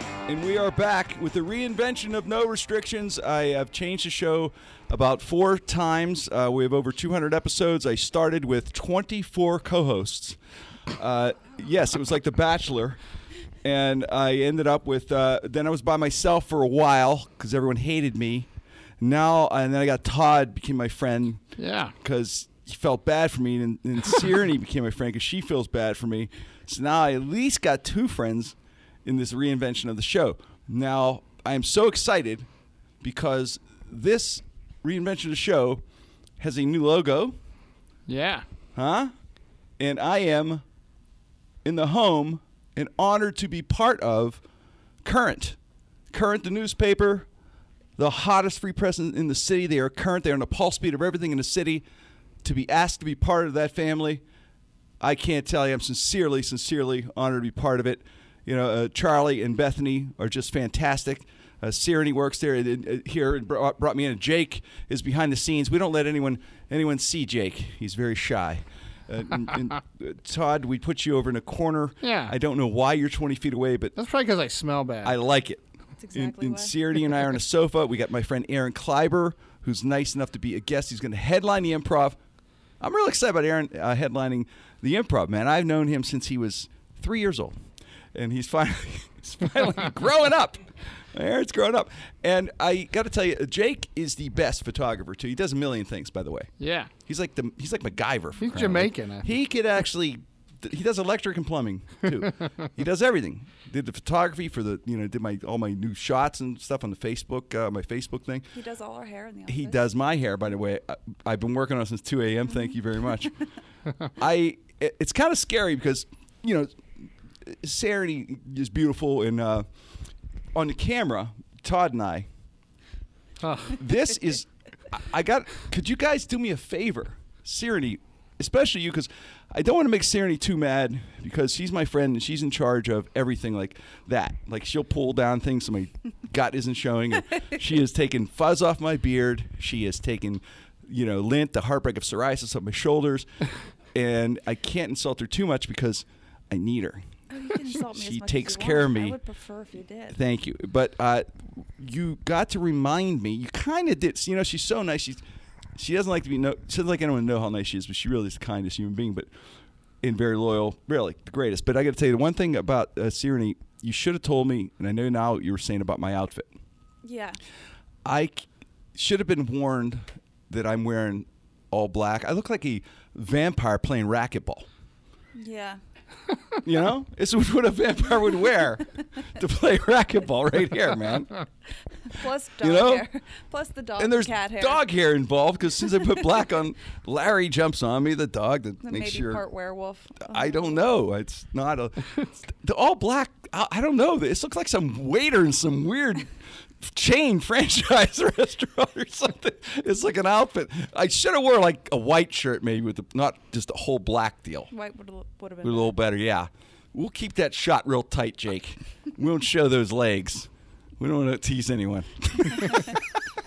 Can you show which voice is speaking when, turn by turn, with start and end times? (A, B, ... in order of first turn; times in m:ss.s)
0:00.3-0:10.4 A
0:10.9-0:13.0 A
0:13.6-0:18.5 A
0:19.0-0:21.4 A
0:21.6-0:22.0 B
0:22.0-0:32.5 A
0:33.0-0:35.8 A
0:36.4-0:37.4 A
0:38.1-0:38.4 B
0:38.8-0:39.1 A
0:39.8-0:40.6 A
0:41.6-0:44.4 A
0:45.0-0:45.6 A
0:46.1-0:47.3 A
0:48.0-0:51.8 A
0:52.4-0:54.2 A
0:55.0-1:14.0 A
1:12.0-1:12.4 B
1:14.0-1:15.2 B
1:15.0-1:15.6 A
1:16.0-1:16.8 C
1:16.1-1:22.2 A
1:22.8-1:27.6 A
1:28.1-1:36.5 A
1:36.6-1:36.9 B
1:37.1-1:48.5 A
1:38.4-1:39.3 B
1:48.5-1:49.9 C
1:49.5-1:53.3 A
1:54.1-1:59.7 A
2:00.5-2:02.3 A
2:03.4-2:03.8 B
2:03.7-2:23.3 A
2:23.9-2:27.1 A
2:27.3-2:30.2 C
2:27.7-2:29.2 A
2:30.1-2:35.2 A
2:35.8-2:39.3 A
2:40.0-2:46.5 A
2:47.0-2:47.4 C
2:48.0-2:54.7 A
2:55.3-2:55.8 C
2:56.6-3:01.3 A
3:02.0-3:04.8 C
3:02.6-3:03.1 A
3:04.0-3:09.4 A
3:08.8-3:10.9 C
3:10.2-3:24.7 A
3:24.7-3:26.0 C
3:25.6-3:33.2 A